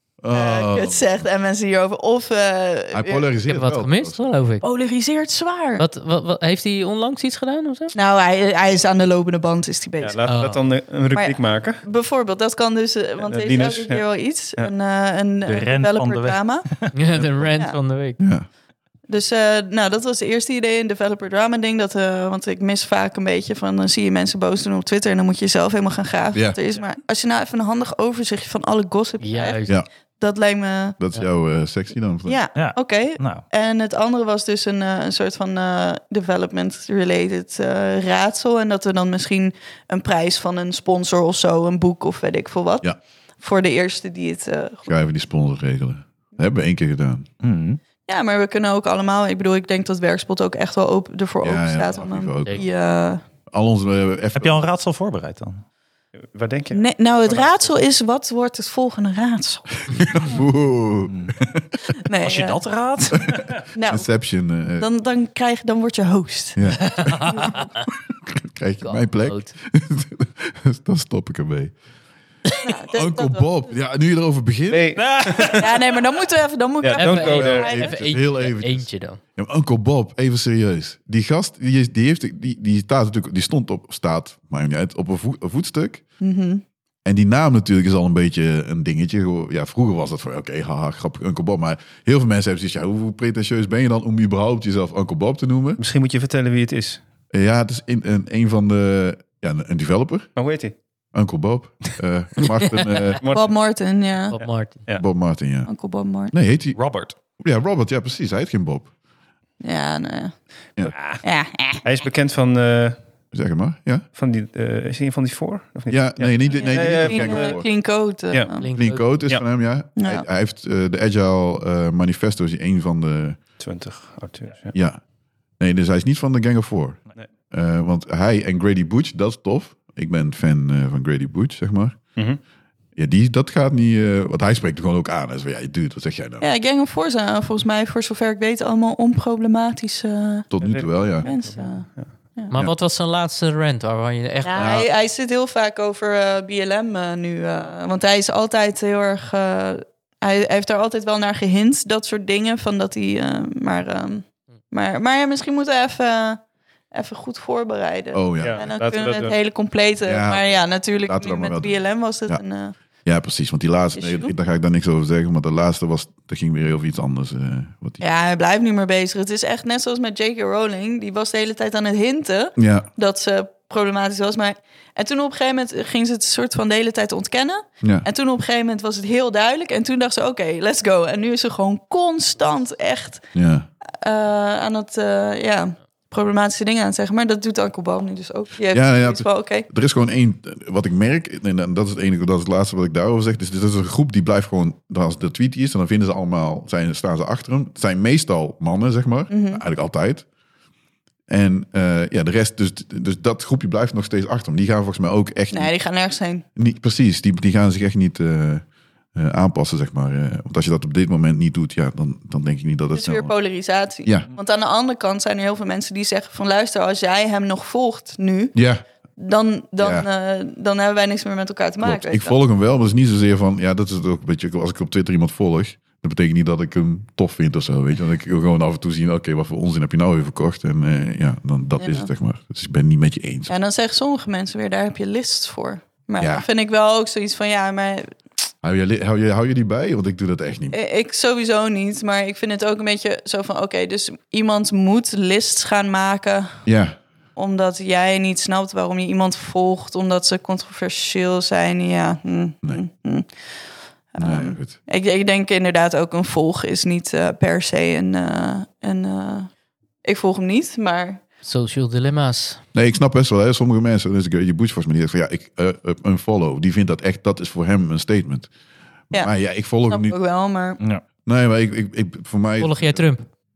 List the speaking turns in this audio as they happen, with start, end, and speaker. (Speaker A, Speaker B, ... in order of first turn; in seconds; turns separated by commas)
Speaker A: 0.2-1.1, Speaker B: 0.3-3.3, Speaker A: 2.9-4.3, Speaker C: 3.4-4.6, Speaker B: 4.6-5.9, Speaker C: 5.8-7.9, Speaker B: 7.9-10.2, Speaker D: 10.0-11.8, Speaker C: 10.2-10.6, Speaker B: 10.9-16.9, Speaker D: 13.2-14.7, Speaker E: 15.5-17.3, Speaker C: 16.9-18.2, Speaker A: 18.2-18.5, Speaker B: 19.1-29.6, Speaker A: 26.3-26.6, Speaker C: 29.2-29.8, Speaker B: 30.2-31.0, Speaker A: 31.0-32.4, Speaker B: 32.2-44.9, Speaker E: 32.6-33.4, Speaker A: 44.9-47.3, Speaker E: 47.4-47.8, Speaker B: 48.1-53.2, Speaker A: 51.4-52.7, Speaker A: 53.5-54.6, Speaker E: 54.4-55.6, Speaker D: 56.3-57.8, Speaker B: 56.7-59.8, Speaker A: 59.9-61.8, Speaker E: 61.1-61.4, Speaker B: 62.0-62.6, Speaker E: 62.2-63.6, Speaker B: 63.8-64.2, Speaker A: 63.9-64.9, Speaker B: 64.8-67.7, Speaker A: 66.6-67.4, Speaker C: 67.5-67.8, Speaker A: 68.5-71.8, Speaker C: 68.8-69.5, Speaker B: 72.6-73.7, Speaker A: 72.9-75.1, Speaker D: 74.7-75.7, Speaker E: 75.0-76.0, Speaker B: 75.5-77.9, Speaker D: 76.8-77.8, Speaker C: 77.0-79.2, Speaker A: 77.2-86.0, Speaker B: 86.2-86.6, Speaker A: 87.0-95.8, Speaker D: 95.8-97.0, Speaker A: 97.3-100.3, Speaker D: 100.4-100.8, Speaker A: 101.1-103.2, Speaker D: 103.2-103.5, Speaker B: 103.3-104.4, Speaker C: 104.3-104.9, Speaker D: 104.3-105.0, Speaker A: 104.9-105.7, Speaker B: 105.7-106.3, Speaker A: 106.3-108.9, Speaker E: 106.8-107.2, Speaker B: 109.6-110.4, Speaker D: 110.9-111.2, Speaker B: 111.2-111.8, Speaker D: 111.8-113.0, Speaker A: 113.3-114.1, Speaker D: 114.2-117.6, Speaker A: 115.9-117.7, Speaker B: 116.5-118.7, Speaker C: 118.6-119.2, Speaker A: 118.7-123.4, Speaker B: 120.0-120.2, Speaker D: 123.6-124.7, Speaker A: 124.7-125.0, Speaker A: 125.6-132.2, Speaker A: 133.0-136.5, Speaker B: 136.4-140.5, Speaker A: 140.5-141.3, Speaker D: 140.6-142.1, Speaker B: 141.2-142.5, Speaker C: 142.5-144.9, Speaker B: 144.4-162.8, Speaker A: 144.6-144.9, Speaker A: 158.1-158.7, Speaker D: 158.4-159.4, Speaker A: 160.1-162.4, Speaker A: 163.0-168.0, Speaker B: 164.0-164.3, Speaker B: 168.0-183.3, Speaker A: 172.6-172.9, Speaker A: 177.8-178.1, Speaker A: 183.3-183.7, Speaker B: 184.0-189.7, Speaker A: 188.7-200.3, Speaker B: 199.3-199.6, Speaker A: 201.3-205.7, Speaker B: 205.5-206.4, Speaker A: 206.6-208.6, Speaker A: 209.2-213.3, Speaker B: 212.9-218.6, Speaker A: 218.5-218.8, Speaker B: 219.2-222.3, Speaker A: 219.8-220.1, Speaker A: 221.8-233.5, Speaker B: 231.8-232.1, Speaker B: 233.5-238.1, Speaker A: 236.2-236.5, Speaker A: 238.6-240.8, Speaker B: 240.7-246.7, Speaker A: 246.7-247.0, Speaker B: 247.4-253.3, Speaker B: 254.1-259.5, Speaker A: 254.2-254.8, Speaker B: 260.0-261.2, Speaker C: 261.4-262.6, Speaker A: 262.7-268.5, Speaker A: 269.1-270.1, Speaker B: 269.8-270.8, Speaker A: 271.2-273.1, Speaker C: 272.6-273.3